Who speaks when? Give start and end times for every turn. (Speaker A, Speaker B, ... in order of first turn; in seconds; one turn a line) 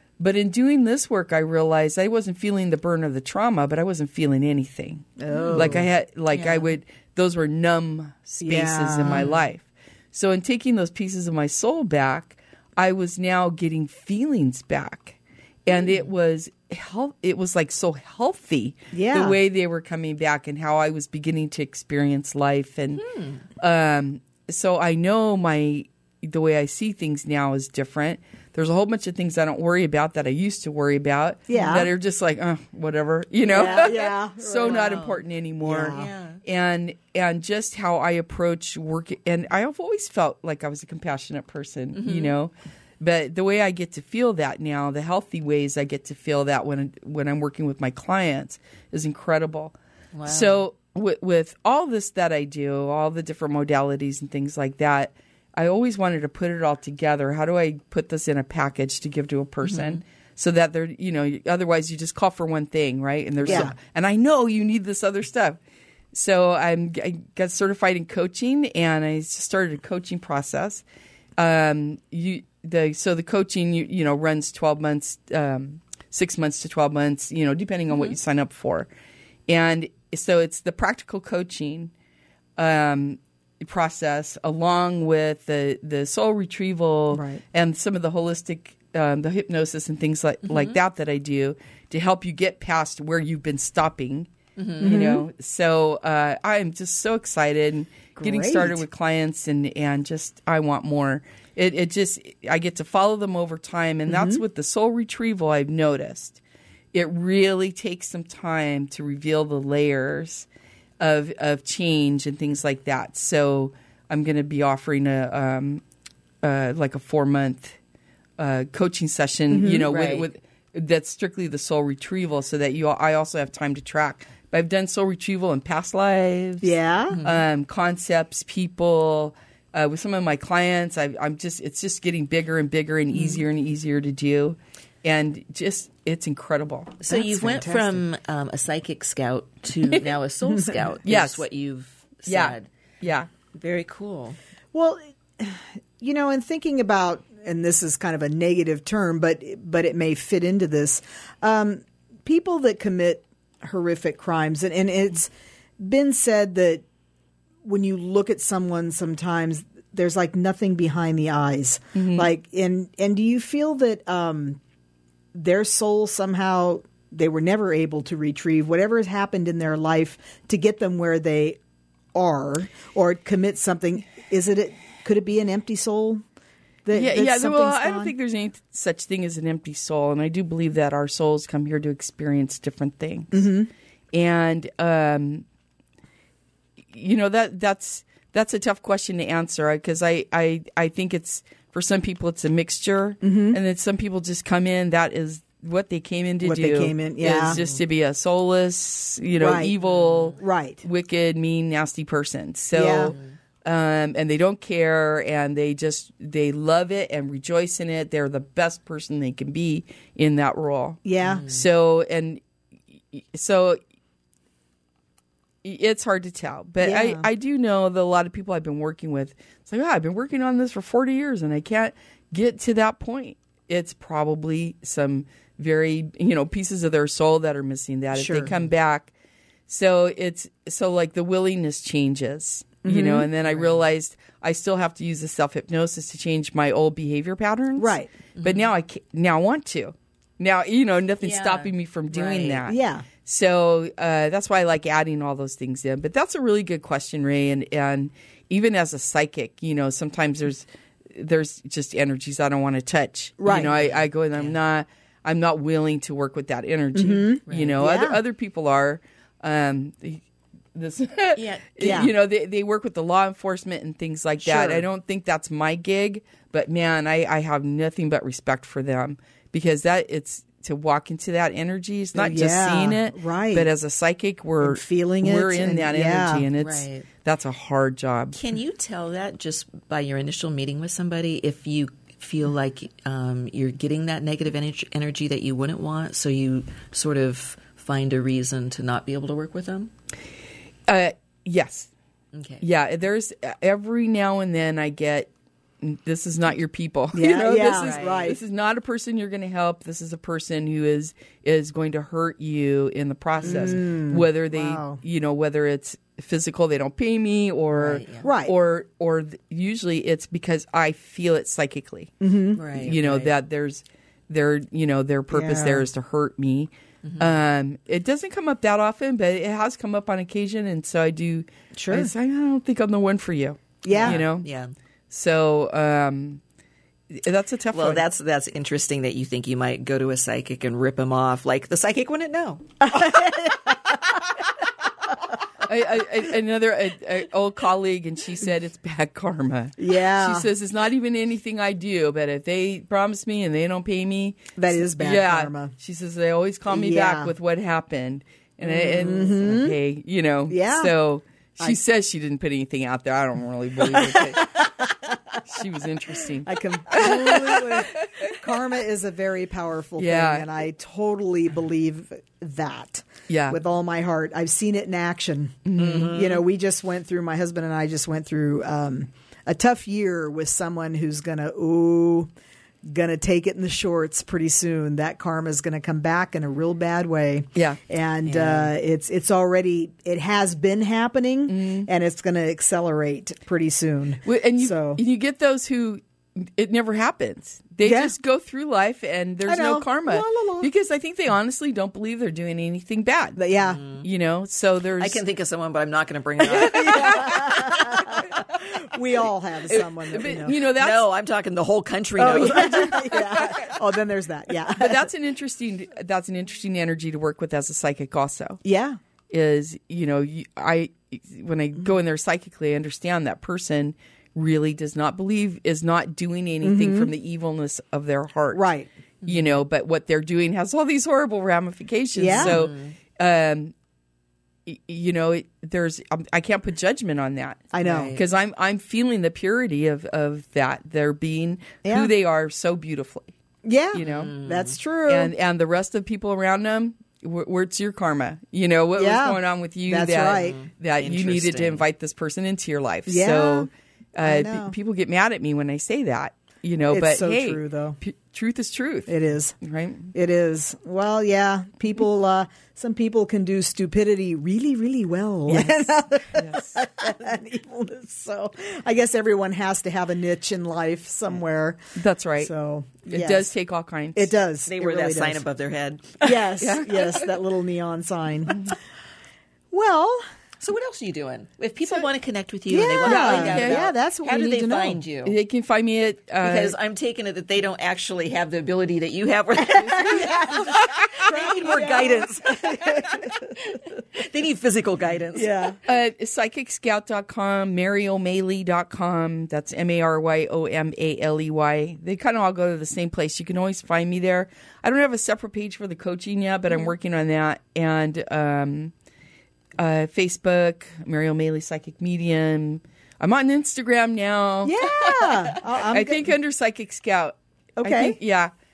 Speaker A: 0.2-23.0
Speaker B: 5.2-5.9
Speaker C: 5.3-5.8
Speaker C: 6.3-6.7
Speaker B: 8.4-9.3
Speaker C: 15.7-16.1
Speaker B: 18.9-19.4
Speaker C: 23.0-23.4
Speaker A: 23.6-65.6
Speaker B: 31.5-31.9
Speaker B: 33.5-35.0
Speaker C: 33.6-33.9
Speaker C: 34.6-35.2
Speaker B: 35.6-36.1
Speaker C: 35.9-36.4
Speaker C: 42.0-42.4
Speaker C: 50.1-50.6
Speaker C: 59.6-60.0
Speaker C: 63.4-63.8
Speaker B: 63.5-63.7
Speaker A: 66.1-70.8
Speaker A: 71.4-78.9
Speaker C: 77.9-78.2
Speaker A: 79.5-81.9
Speaker A: 82.6-106.4
Speaker B: 87.1-87.4
Speaker C: 90.4-90.8
Speaker C: 94.6-95.0
Speaker B: 94.8-95.3
Speaker B: 98.2-98.8
Speaker B: 104.1-104.4
Speaker A: 106.9-110.5
Speaker A: 111.0-115.8
Speaker A: 116.4-117.8
Speaker A: 118.4-137.0
Speaker B: 119.5-119.9
Speaker C: 119.9-120.3
Speaker B: 126.6-127.2
Speaker C: 127.1-127.4
Speaker C: 133.1-133.4
Speaker C: 137.0-142.7
Speaker B: 137.1-138.1
Speaker A: 141.0-141.5
Speaker A: 142.3-143.3
Speaker C: 143.5-144.4
Speaker B: 144.7-155.3
Speaker B: 155.8-156.8
Speaker B: 157.6-164.6
Speaker A: 161.9-162.3
Speaker B: 165.3-171.6
Speaker B: 172.1-176.2
Speaker B: 176.8-178.1
Speaker A: 176.9-183.5
Speaker B: 183.3-183.7
Speaker A: 184.1-185.4
Speaker A: 186.9-212.4
Speaker B: 193.2-193.6
Speaker B: 196.4-197.6
Speaker C: 197.4-197.8
Speaker B: 199.3-199.8
Speaker C: 199.8-200.4
Speaker B: 200.4-200.8
Speaker B: 202.7-203.2
Speaker B: 211.0-211.4
Speaker C: 211.2-211.7
Speaker A: 213.0-213.8
Speaker A: 215.6-229.1
Speaker B: 216.8-217.3
Speaker B: 228.1-228.5
Speaker A: 229.7-278.4
Speaker B: 232.8-233.3
Speaker C: 233.4-233.8
Speaker B: 237.8-238.1
Speaker C: 238.4-238.7
Speaker C: 241.2-242.7
Speaker B: 242.7-243.1
Speaker B: 253.4-253.7
Speaker C: 253.6-254.6
Speaker B: 256.9-258.2
Speaker C: 257.5-257.8
Speaker C: 261.4-262.0
Speaker B: 261.8-262.1
Speaker B: 264.4-264.9
Speaker B: 272.1-273.7
Speaker B: 274.6-276.5
Speaker C: 276.6-277.1
Speaker C: 278.3-289.9
Speaker A: 290.9-291.9
Speaker C: 292.3-292.6
Speaker A: 292.6-295.3
Speaker A: 295.8-312.1
Speaker B: 297.1-298.4
Speaker C: 297.6-298.3
Speaker C: 303.4-303.8
Speaker B: 303.4-305.0
Speaker C: 307.7-308.3
Speaker B: 308.2-308.5
Speaker B: 312.2-312.6
Speaker C: 312.6-313.3
Speaker A: 312.8-324.5
Speaker B: 315.3-315.9
Speaker C: 317.0-317.4
Speaker B: 321.8-322.1
Speaker B: 323.8-324.2
Speaker C: 323.9-324.7
Speaker A: 325.1-326.4
Speaker A: 327.2-328.1
Speaker C: 327.7-332.7
Speaker B: 332.8-334.0
Speaker A: 335.6-354.7
Speaker B: 339.8-340.5
Speaker B: 344.6-345.7
Speaker B: 346.7-347.3
Speaker B: 348.6-349.8
Speaker B: 350.5-350.9
Speaker B: 353.9-354.8
Speaker A: 355.4-357.9
Speaker B: 356.4-372.3
Speaker A: 360.0-360.5
Speaker A: 363.3-363.6
Speaker A: 365.7-366.1
Speaker C: 365.8-366.4
Speaker B: 372.9-385.0
Speaker A: 377.6-377.8
Speaker C: 378.2-378.7
Speaker A: 381.5-381.9
Speaker A: 384.2-393.4
Speaker B: 387.8-388.1
Speaker B: 389.4-390.7
Speaker B: 393.4-393.8
Speaker C: 393.6-394.1
Speaker A: 394.0-395.2
Speaker C: 395.0-398.0
Speaker A: 396.4-397.5
Speaker B: 396.6-400.6
Speaker A: 399.7-401.1
Speaker C: 400.8-403.5
Speaker B: 402.2-405.1
Speaker A: 404.8-408.6
Speaker B: 408.6-409.0
Speaker A: 409.3-418.6
Speaker B: 416.6-417.1
Speaker B: 418.5-418.9
Speaker C: 419.2-419.5
Speaker A: 419.3-423.8
Speaker B: 422.1-422.6
Speaker C: 422.3-422.9
Speaker A: 424.7-433.3
Speaker B: 427.7-428.1
Speaker C: 427.8-428.2
Speaker B: 431.8-432.1
Speaker B: 433.6-435.3
Speaker A: 433.9-434.3
Speaker C: 434.0-434.8
Speaker A: 435.1-450.1
Speaker B: 439.0-440.6
Speaker C: 440.4-441.9
Speaker B: 443.1-443.7
Speaker B: 444.2-444.8
Speaker B: 446.8-448.0
Speaker B: 449.1-449.6
Speaker B: 450.1-461.8
Speaker A: 455.5-456.9
Speaker A: 462.0-462.5
Speaker B: 462.4-463.5
Speaker A: 463.1-464.3
Speaker B: 464.1-465.4
Speaker C: 464.7-466.5
Speaker B: 466.2-468.8
Speaker A: 466.6-467.1
Speaker B: 469.7-470.2
Speaker C: 470.6-475.4
Speaker B: 472.7-475.0
Speaker A: 473.0-473.9
Speaker A: 475.2-476.8
Speaker C: 476.4-483.3
Speaker B: 479.6-480.7
Speaker B: 481.2-483.3
Speaker C: 484.2-485.5
Speaker B: 485.4-485.8
Speaker A: 485.9-498.9
Speaker A: 499.8-504.8
Speaker B: 504.6-506.4
Speaker A: 505.6-508.5
Speaker B: 507.8-508.2